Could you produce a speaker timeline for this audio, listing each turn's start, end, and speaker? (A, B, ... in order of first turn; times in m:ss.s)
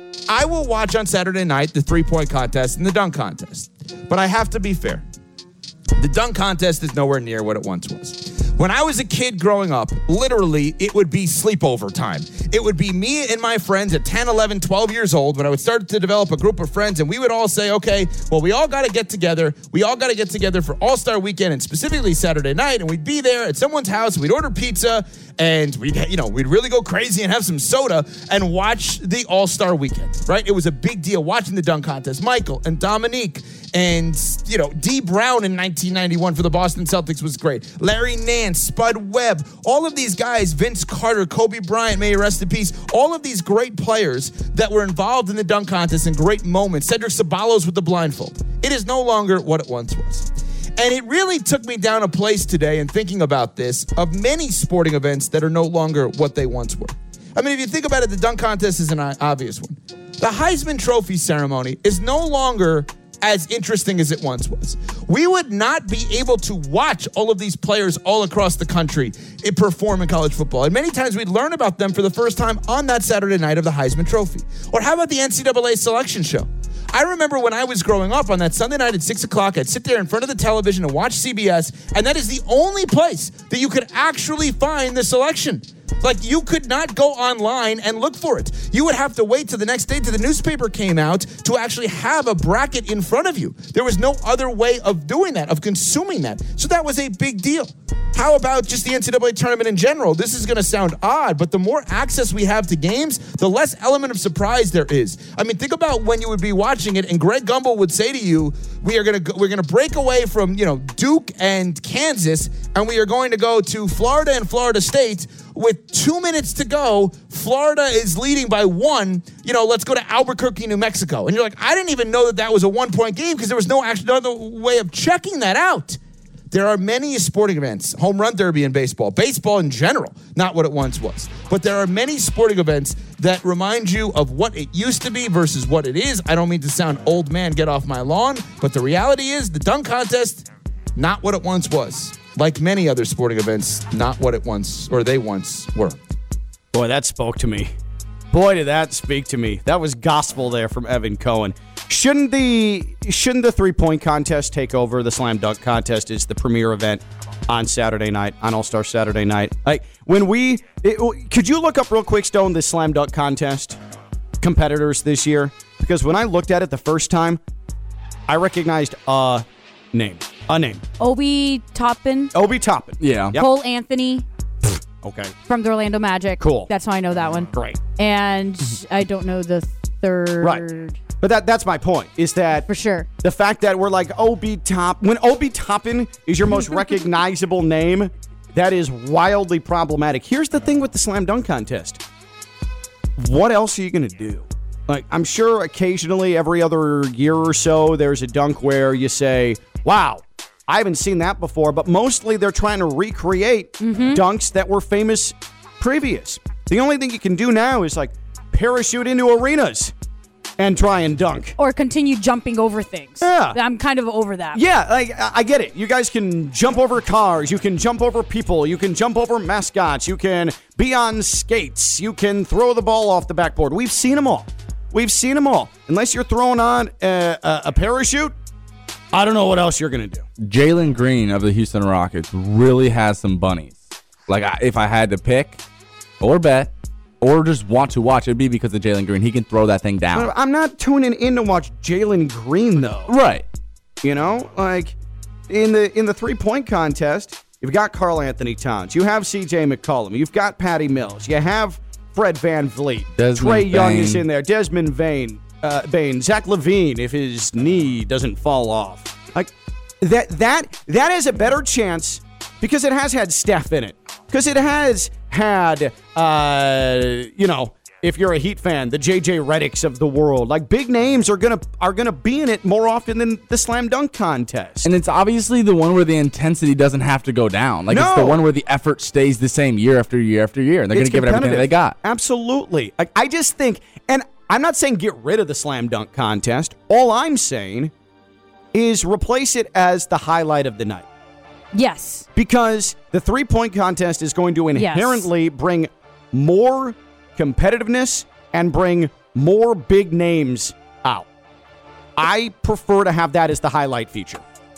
0:00.3-0:05.0 A
0:06.0-2:06.0 A
2:06.5-2:20.4 A
2:21.0-2:26.0 A
2:26.7-2:27.7 B
2:28.3-2:43.8 B
2:44.4-2:47.4 B
2:48.3-2:50.8 B
2:51.0-2:52.3 C
2:52.3-2:53.5 B
2:53.0-2:53.4 D
2:53.3-2:54.2 C
2:54.6-2:55.3 B
2:55.5-3:01.0 C
2:56.4-2:56.7 B
2:57.5-2:57.8 B
3:01.2-3:02.7 B
3:02.7-3:03.1 C
3:03.2-3:12.0 B
3:13.2-3:29.9 B
3:23.8-3:24.2 C
3:30.6-3:31.6 B
3:31.6-3:34.6 C
3:33.2-3:33.6 B
3:34.5-3:48.3 B
3:49.1-3:50.3 B
3:50.4-3:55.6 D
3:56.2-4:00.3 D
4:00.1-4:03.1 B
4:03.1-4:03.4 D
4:04.0-4:05.0 B
4:05.5-4:34.9 B
4:13.2-4:14.2 D
4:34.8-4:42.0 D
4:37.9-4:38.4 B
4:40.9-4:47.9 B
4:48.7-4:51.1 B
4:51.7-4:52.3 C
4:52.4-5:01.3 B
4:54.8-4:55.3 C
5:02.2-5:04.4 B